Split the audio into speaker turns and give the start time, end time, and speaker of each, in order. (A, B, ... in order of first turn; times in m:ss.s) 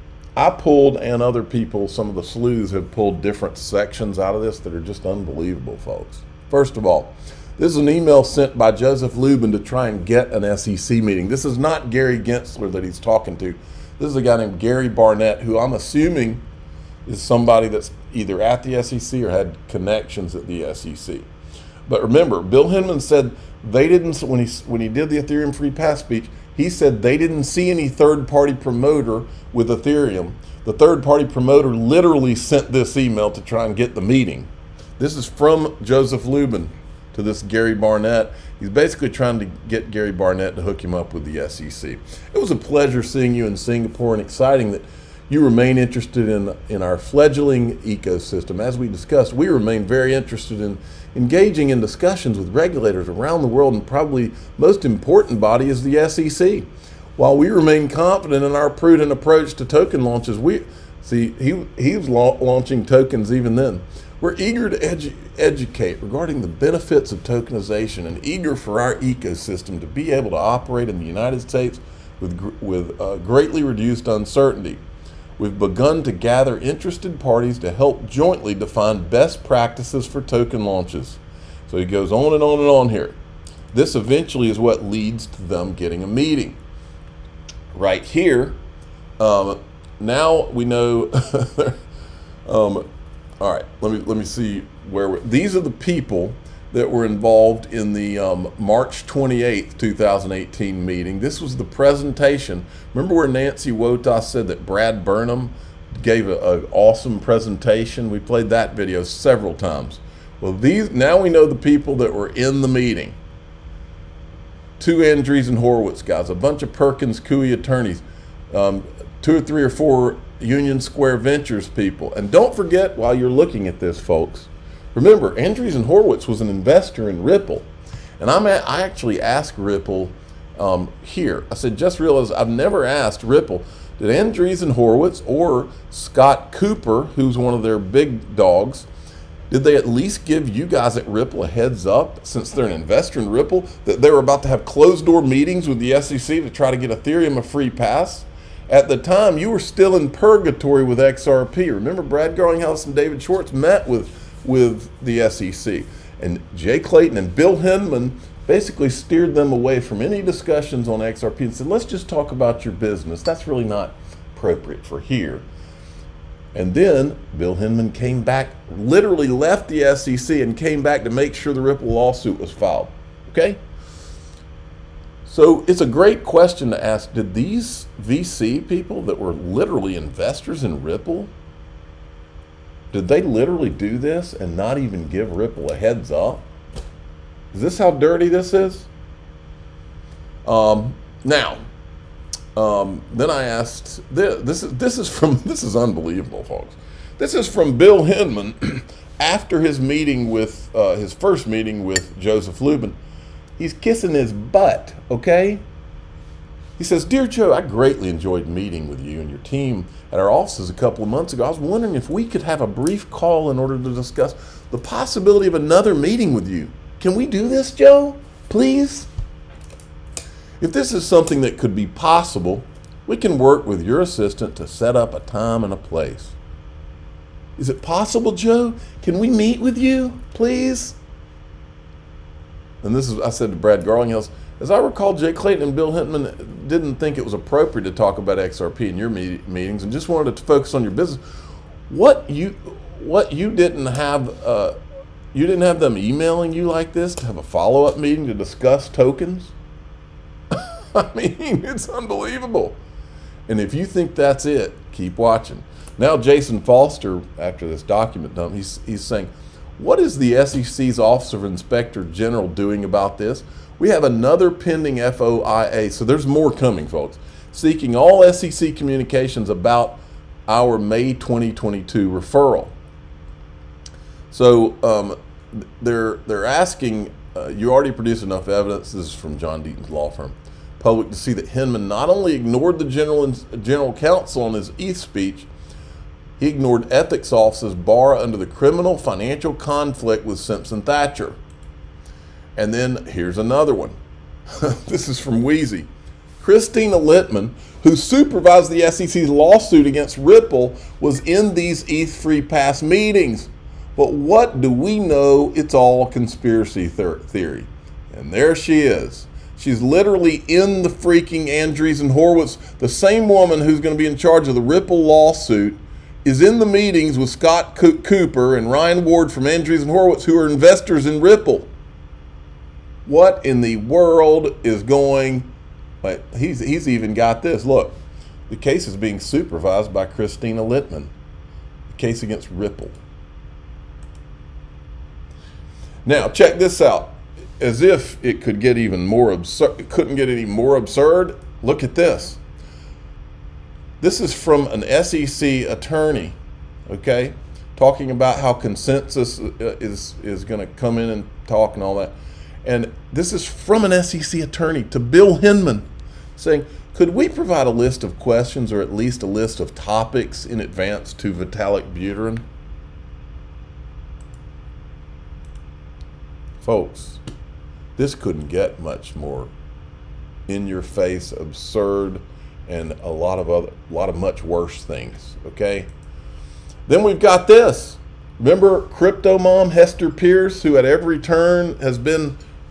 0:00.4-0:16.4 A
0:17.1-0:21.3 A
0:21.9-1:14.8 A
1:15.4-1:23.2 A
1:23.7-1:26.6 A
1:27.7-1:28.6 A
1:29.2-1:31.8 A
1:32.5-1:32.8 A
1:33.4-1:53.2 A
1:54.8-2:18.9 A
2:19.5-2:45.5 A
2:46.5-2:53.6 A
2:55.2-3:01.3 A
3:02.9-3:06.4 A
3:07.5-3:08.9 A
3:10.4-3:11.6 A
3:12.6-3:23.0 A
3:23.6-3:25.6 A
3:26.8-3:39.1 A
3:40.6-3:46.4 A
3:47.6-3:51.0 A
3:52.8-4:01.2 A
4:01.9-4:04.7 A
4:05.3-4:09.6 A
4:10.6-4:12.8 A
4:13.5-4:32.8 A
4:34.3-4:45.5 A
4:46.4-4:51.4 A
4:52.6-4:54.0 A
4:54.6-4:55.9 A
4:56.4-5:21.7 A
5:23.0-5:31.1 A
5:31.9-5:33.0 A
5:36.0-5:42.4 A
5:44.0-5:46.4 A
5:46.9-6:02.4 A
6:06.6-6:07.2 A
6:08.0-6:09.5 A
6:10.5-6:15.9 A
6:16.9-6:22.4 A